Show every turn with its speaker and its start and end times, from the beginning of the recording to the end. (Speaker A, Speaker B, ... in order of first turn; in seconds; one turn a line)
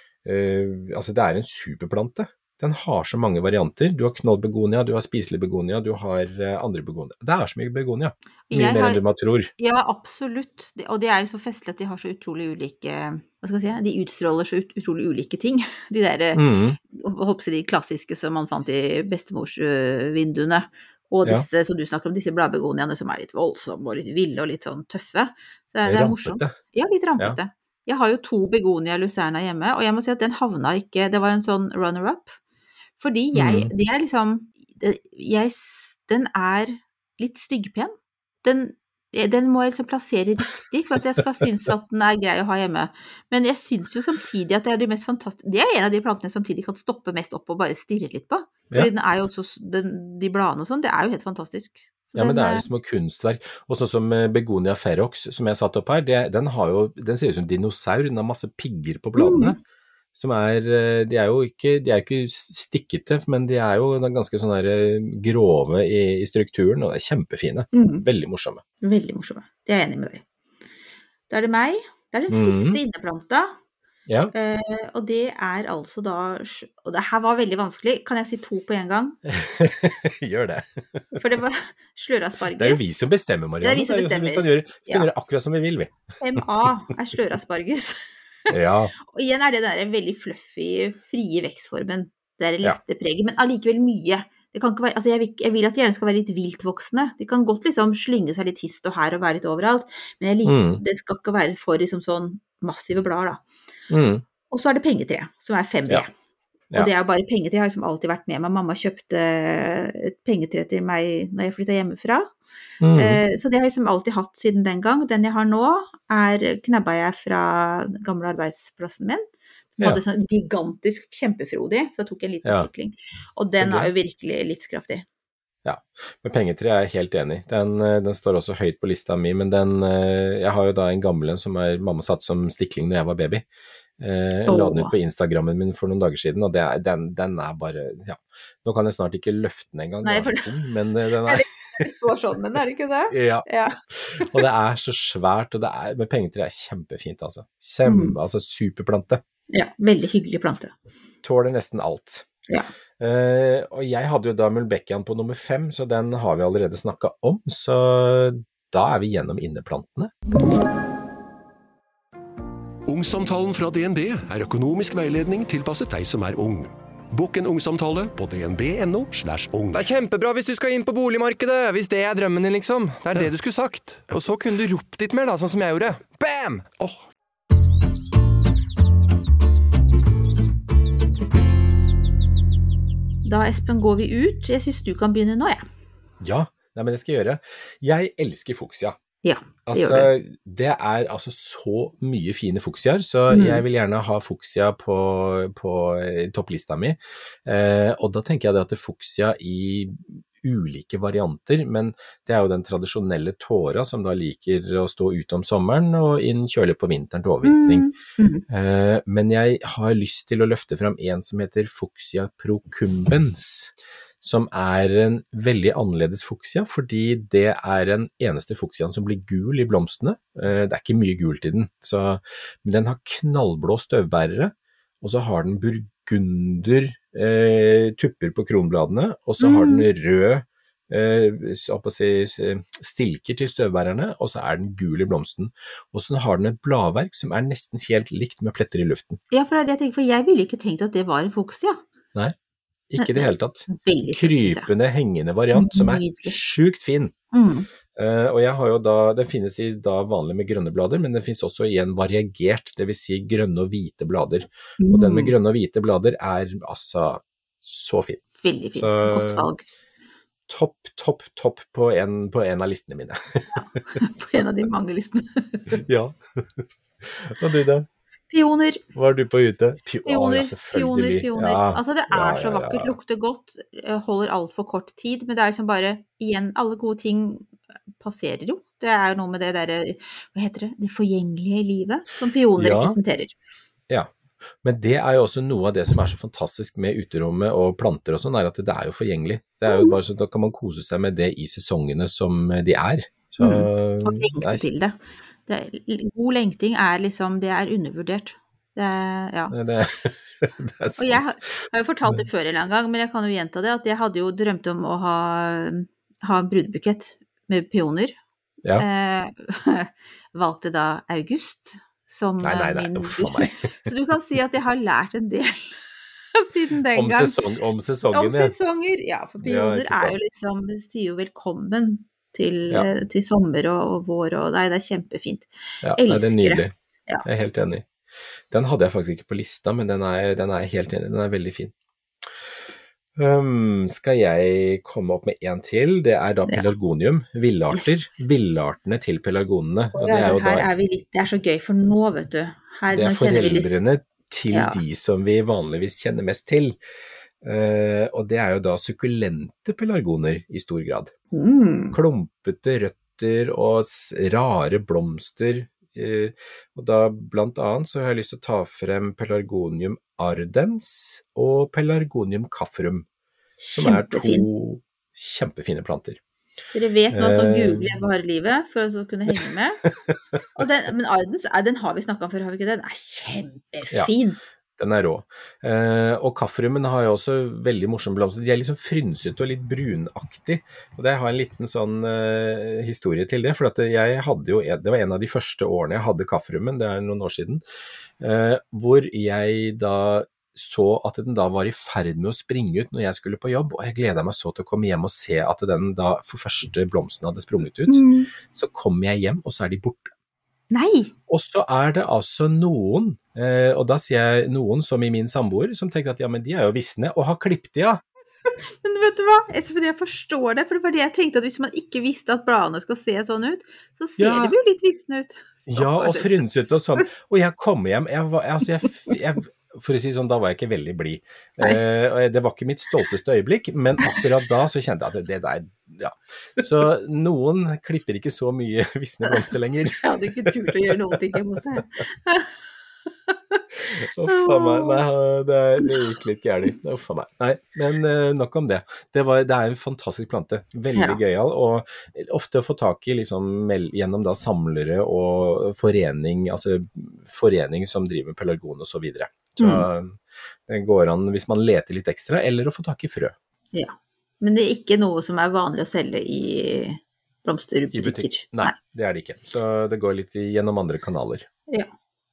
Speaker A: 0.2-9.5
Speaker B: 8.5-9.0
Speaker B: 9.6-32.4
Speaker A: 16.4-16.8
Speaker A: 25.9-26.6
Speaker B: 33.0-52.7
Speaker A: 33.3-33.7
Speaker A: 52.1-59.6
Speaker B: 59.2-59.6
Speaker A: 60.1-68.6
Speaker B: 67.7-68.1
Speaker B: 68.8-70.2
Speaker B: 71.3-73.5
Speaker A: 72.3-72.8
Speaker A: 74.1-74.3
Speaker B: 74.3-79.2
Speaker A: 79.3-81.2
Speaker B: 81.2-83.0
Speaker A: 82.6-86.0
Speaker B: 83.6-85.1
Speaker B: 86.2-88.0
Speaker A: 88.5-88.9
Speaker B: 88.5-103.4
Speaker A: 100.5-100.8
Speaker A: 103.9-104.2
Speaker B: 104.5-106.1
Speaker B: 106.8-112.3
Speaker A: 112.8-113.2
Speaker B: 113.0-119.2
Speaker B: 119.8-125.0
Speaker A: 123.6-123.9
Speaker A: 125.7-133.4
Speaker A: 134.0-141.8
Speaker B: 134.5-134.9
Speaker B: 140.0-140.5
Speaker B: 141.3-144.3
Speaker A: 143.1-149.2
Speaker B: 147.8-148.2
Speaker B: 149.5-150.7
Speaker A: 151.2-152.3
Speaker A: 153.0-160.1
Speaker C: 162.9-169.9
Speaker D: 169.7-177.0
Speaker B: 183.2-185.6
Speaker A: 186.2-189.0
Speaker B: 189.2-190.1
Speaker A: 189.7-207.9
Speaker B: 193.3-193.6
Speaker B: 207.4-208.4
Speaker A: 208.5-239.2
Speaker B: 229.4-229.9
Speaker B: 239.3-241.8
Speaker A: 242.9-247.1
Speaker B: 243.0-244.7
Speaker B: 245.5-246.4
Speaker B: 247.3-247.7
Speaker A: 248.0-258.2
Speaker B: 254.8-255.3
Speaker B: 258.4-259.6
Speaker A: 258.7-259.5
Speaker A: 260.5-263.6
Speaker B: 263.5-265.8
Speaker A: 265.8-267.9
Speaker B: 268.3-268.8
Speaker A: 268.9-273.0
Speaker B: 270.1-277.5
Speaker B: 278.0-283.3
Speaker A: 282.6-283.0
Speaker A: 284.6-294.6
Speaker B: 289.7-289.9
Speaker B: 293.4-299.6
Speaker A: 299.5-302.2
Speaker B: 301.0-308.2
Speaker B: 308.8-315.8
Speaker A: 312.4-313.6
Speaker B: 316.4-317.4
Speaker A: 316.9-318.5
Speaker B: 318.1-327.2
Speaker A: 319.4-320.2
Speaker A: 325.8-327.9
Speaker A: 328.5-331.7
Speaker A: 333.2-340.7
Speaker B: 337.7-338.2
Speaker B: 339.9-343.8
Speaker A: 342.9-346.8
Speaker B: 344.5-344.8
Speaker A: 347.4-351.1
Speaker B: 351.3-352.0
Speaker A: 351.9-363.1
Speaker B: 363.6-364.5
Speaker A: 363.8-366.2
Speaker B: 366.7-369.8
Speaker A: 367.1-368.0
Speaker B: 370.6-374.4
Speaker A: 374.8-387.6
Speaker A: 388.2-400.1
Speaker B: 397.9-398.3
Speaker B: 400.7-401.1
Speaker A: 401.3-408.0
Speaker B: 408.5-416.3
Speaker A: 414.2-414.6
Speaker A: 415.7-431.1
Speaker B: 430.0-432.5
Speaker B: 433.3-433.6
Speaker A: 433.7-453.3
Speaker B: 434.3-435.0
Speaker B: 449.6-449.9
Speaker B: 453.7-458.8
Speaker A: 457.9-461.5